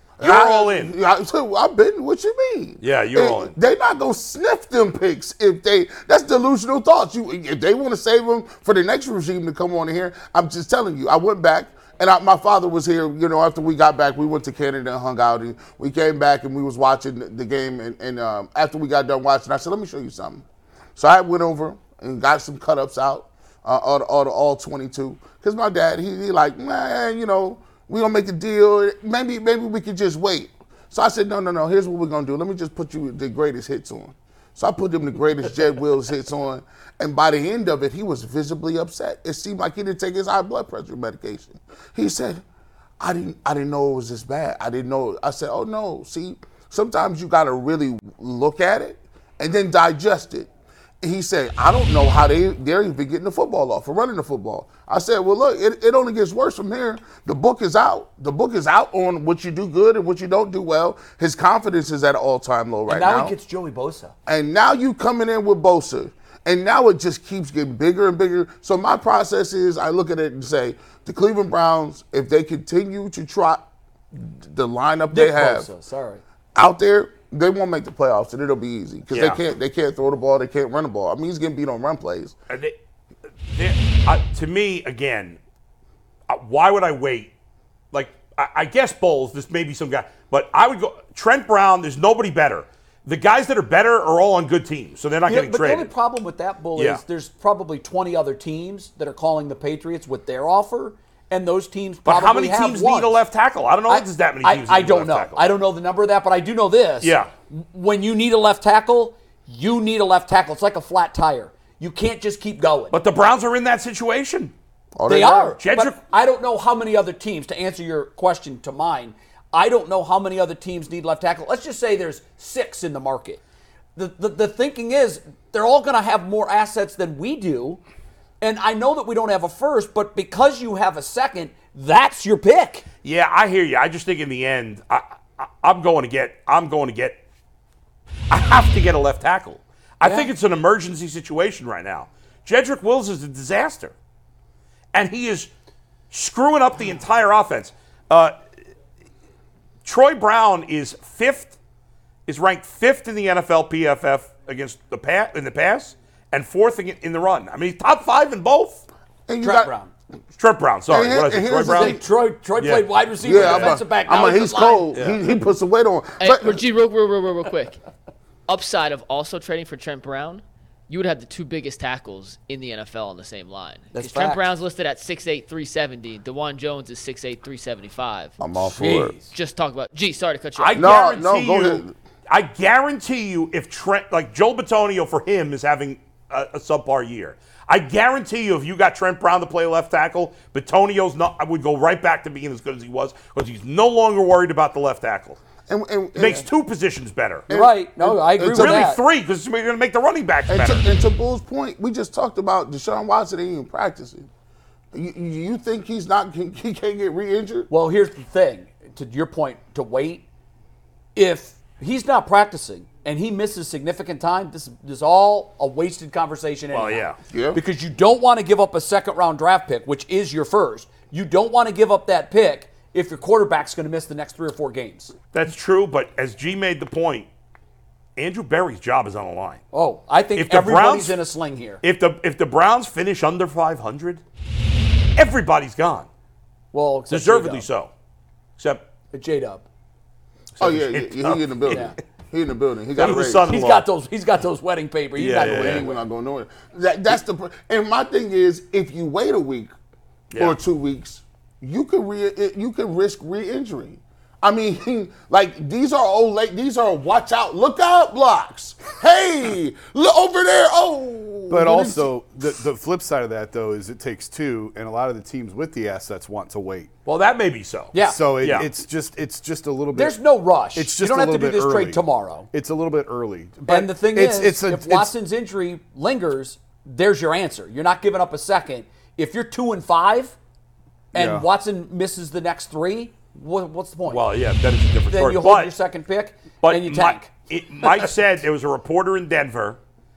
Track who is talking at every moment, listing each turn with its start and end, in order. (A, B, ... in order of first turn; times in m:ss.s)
0:00.2-0:20.4 A
0:00.2-0:01.0 B
0:02.8-0:03.5 B
0:21.0-0:42.4 A
0:43.0-0:50.5 A
0:51.0-1:03.3 A
1:02.9-1:04.1 C
1:04.3-1:15.7 A
1:15.1-1:16.2 C
1:16.6-1:22.4 A
1:19.1-1:19.4 B
1:22.5-1:22.8 B
1:23.5-1:25.4 B
1:26.3-1:27.3 B
1:27.9-1:35.9 B
1:35.3-1:43.2 C
1:36.8-1:37.0 B
1:42.1-1:45.5 B
1:43.9-1:53.0 C
1:47.0-1:47.3 B
1:52.9-1:54.5 B
1:55.0-1:55.6 A
1:55.1-2:03.4 C
1:55.6-1:56.0 B
2:04.0-2:07.8 C
2:08.4-2:12.8 C
2:13.0-2:17.2 B
2:18.3-2:23.9 B
2:20.0-2:20.3 C
2:24.9-2:25.5 B
2:26.1-2:28.4 B
2:29.8-2:31.6 B
2:32.3-2:38.9 B
2:39.3-2:39.7 A
2:39.4-2:39.9 C
2:40.4-2:42.0 B
2:40.9-2:42.0 A
2:41.7-2:44.9 C
2:42.6-2:43.8 B
2:43.2-2:46.6 A
2:44.9-2:45.2 B
2:46.2-2:47.8 D
2:48.5-2:58.4 D
2:53.9-2:54.4 C
2:58.4-2:59.2 A
2:58.6-2:59.3 C
2:59.3-3:00.9 D
3:00.6-3:15.4 B
3:00.8-3:01.9 A
3:15.7-3:16.5 A
3:16.2-3:17.5 B
3:17.5-3:18.9 A
3:17.5-3:19.0 C
3:18.5-3:20.9 B
3:20.5-3:24.3 A
3:24.9-3:27.7 A
3:27.7-3:30.2 C
3:31.2-3:45.1 C
3:36.7-3:37.2 B
3:37.3-3:37.6 A
3:45.3-3:47.3 B
3:48.2-3:49.6 B
3:49.7-3:51.8 C
3:50.4-3:51.2 B
3:51.8-3:54.2 B
3:55.2-3:56.1 B
3:56.7-3:57.7 C
3:57.1-3:57.9 B
3:58.6-3:58.9 B
3:59.1-3:59.6 C
4:00.6-4:01.9 B
4:00.6-4:03.5 A
4:01.7-4:02.0 C
4:03.0-4:03.9 B
4:03.0-4:06.0 C
4:05.2-4:05.9 B
4:05.4-4:09.7 A
4:10.4-4:22.1 A
4:21.5-4:26.9 E
4:27.1-4:28.7 B
4:27.9-4:28.2 C
4:28.0-4:30.2 E
4:29.9-4:32.5 C
4:30.7-4:35.1 E
4:33.7-4:40.4 C
4:41.1-4:44.2 C
4:41.1-4:41.5 E
4:44.1-4:45.7 B
4:45.1-4:47.3 C
4:46.6-4:49.8 B